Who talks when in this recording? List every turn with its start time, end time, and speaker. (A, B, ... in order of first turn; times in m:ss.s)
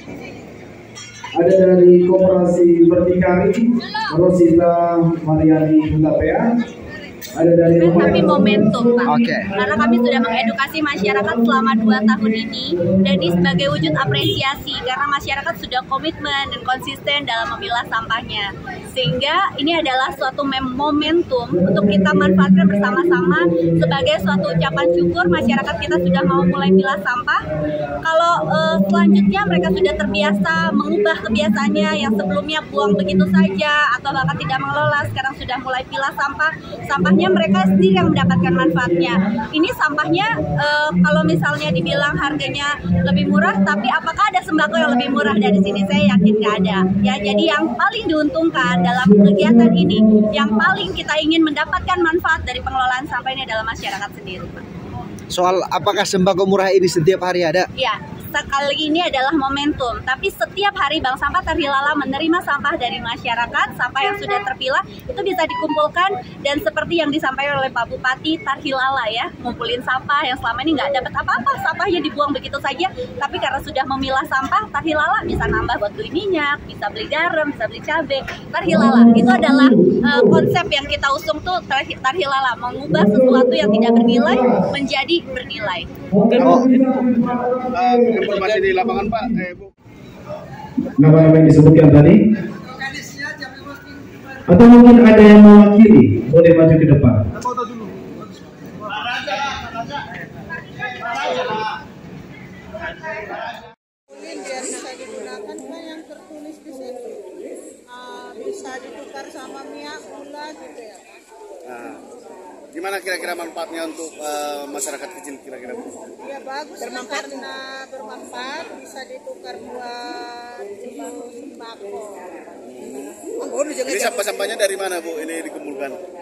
0:01.4-0:06.4 A
0:07.4-0:14.4 A
0:07.8-0:27.4 B
0:09.1-0:09.5 C
0:21.5-0:35.0 A
0:28.0-0:54.6 B
0:36.9-0:43.9 A
0:44.5-0:47.8 A
0:48.5-0:50.9 A
0:55.3-0:57.7 C
0:55.4-0:56.3 A
0:57.8-1:25.9 B
1:18.6-1:20.4 A
1:22.8-1:24.7 A
1:26.1-1:29.4 A
1:26.4-1:27.2 D
1:26.4-1:26.7 C
1:27.7-1:29.7 D
1:31.0-1:32.2 A
1:34.4-1:37.2 A
1:41.0-1:41.5 D
1:44.1-1:47.2 E
1:47.9-1:51.1 E
1:51.6-1:52.0 D
1:52.7-1:55.9 D
1:56.2-2:02.2 E
2:02.6-2:03.2 D
2:03.8-2:06.0 D